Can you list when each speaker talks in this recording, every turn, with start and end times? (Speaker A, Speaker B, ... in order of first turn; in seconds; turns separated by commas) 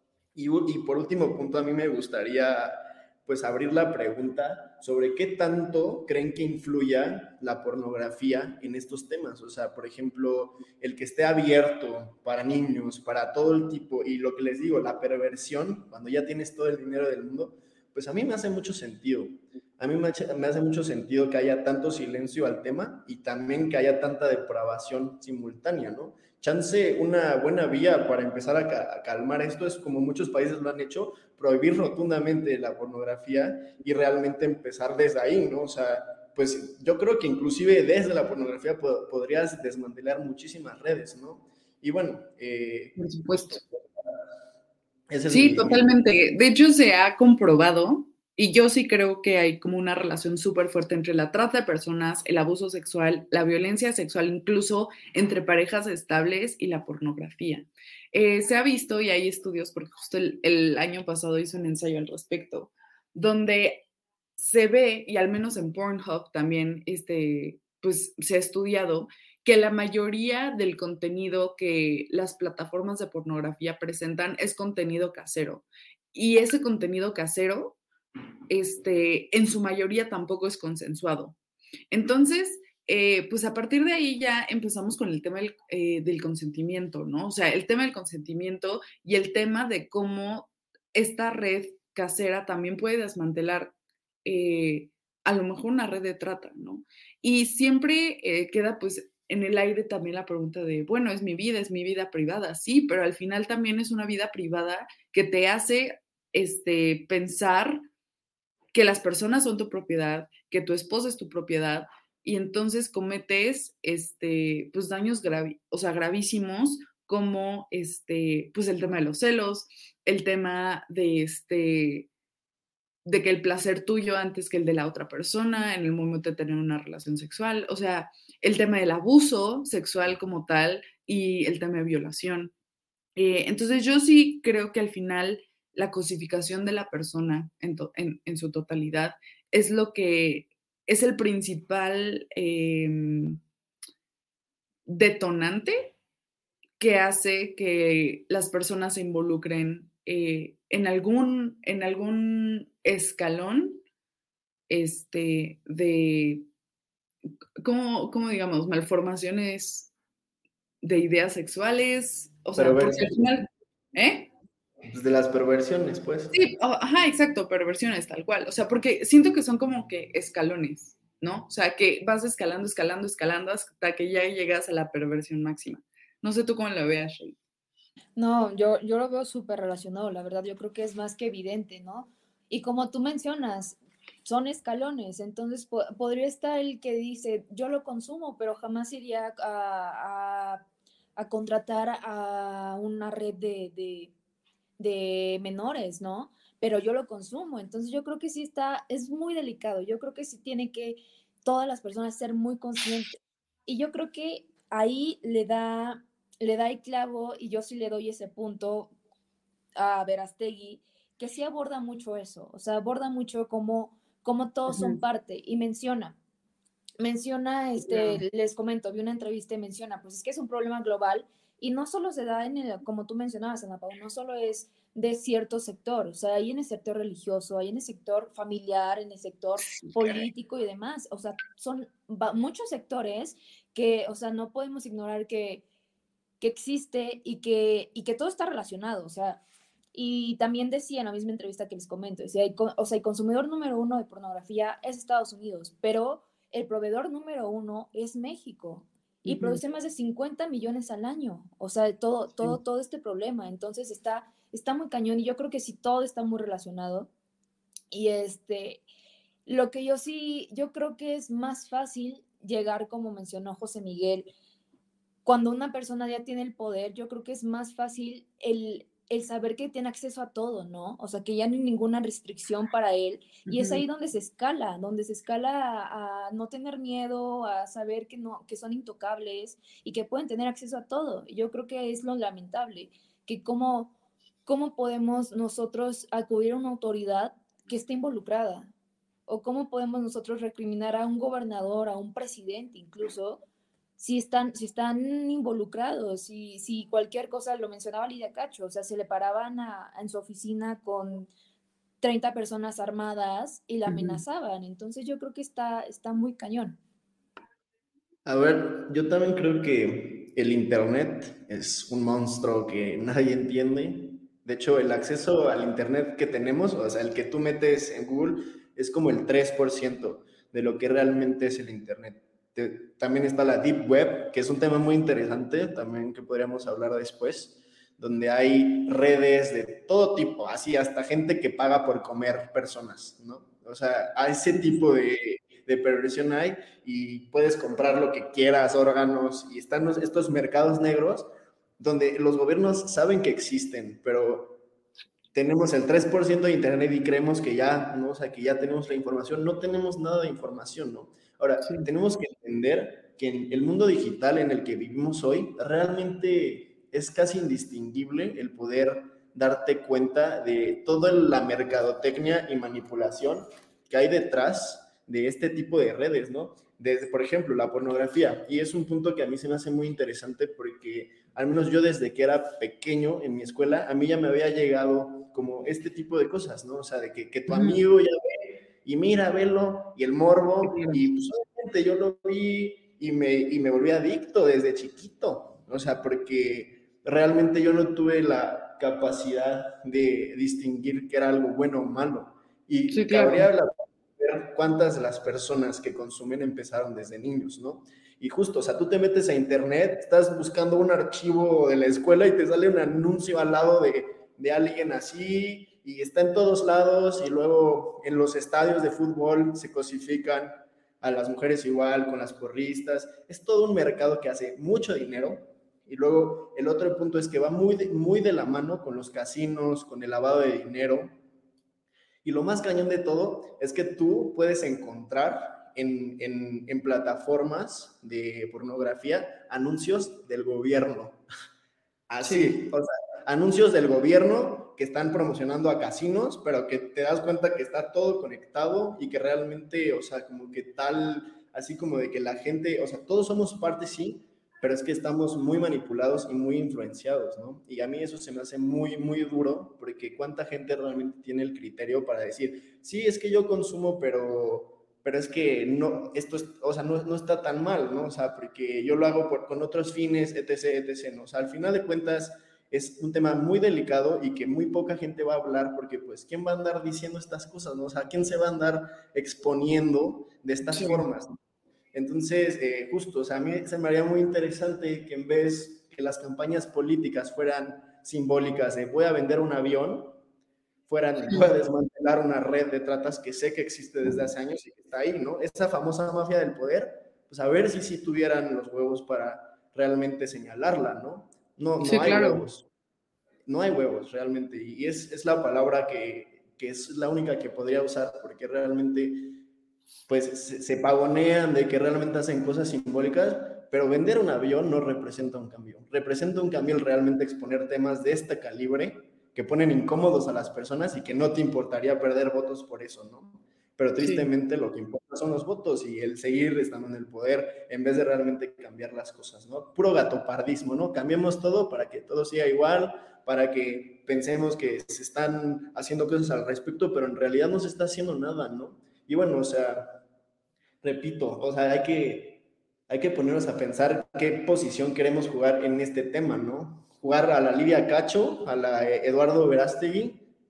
Speaker A: 0.3-42.9, Speaker B: 43.0-43.6, Speaker A: 43.5-43.7, Speaker A: 45.1-45.9, Speaker B: 45.3-63.8, Speaker B: 64.4-77.8, Speaker B: 78.5-81.3, Speaker B: 81.9-93.7, Speaker B: 94.2-107.8, Speaker B: 108.7-122.1, Speaker B: 123.0-132.5, Speaker B: 133.2-143.4, Speaker B: 144.9-145.9, Speaker B: 146.8-153.8, Speaker B: 154.7-156.5, Speaker B: 157.6-159.9, Speaker B: 160.8-164.3, Speaker A: 162.6-163.3, Speaker A: 164.9-166.4, Speaker B: 166.3-177.3, Speaker C: 178.2-190.6, Speaker C: 191.2-194.1, Speaker C: 194.8-208.9, Speaker C: 209.8-216.2, Speaker B: 214.7-215.0, Speaker C: 217.0-235.6, Speaker B: 217.8-218.2, Speaker B: 229.7-230.2, Speaker C: 236.4-239.4, Speaker C: 239.9-257.1, Speaker B: 249.2-249.6, Speaker C: 257.9-258.8, Speaker C: 259.4-264.3, Speaker C: 265.2-283.9, Speaker B: 273.5-273.8, Speaker C: 284.4-288.7, Speaker C: 289.3-293.4, Speaker C: 294.0-301.3, Speaker C: 302.0-306.8, Speaker B: 303.9-304.2, Speaker A: 308.2-344.6, Speaker B: 334.5-334.8, Speaker A: 345.3-421.2, Speaker B: 377.5-377.8, Speaker B: 380.6-381.0, Speaker B: 392.9-393.5, Speaker A: 422.2-431.2, Speaker A: 432.1-471.4, Speaker B: 432.2-432.6, Speaker B: 470.7-471.0, Speaker A: 471.9-480.2, Speaker A: 480.9-492.7, Speaker B: 491.8-492.4, Speaker A: 493.4-499.4, Speaker A: 500.1-530.0, Speaker B: 514.0-514.3, Speaker A: 530.8-540.3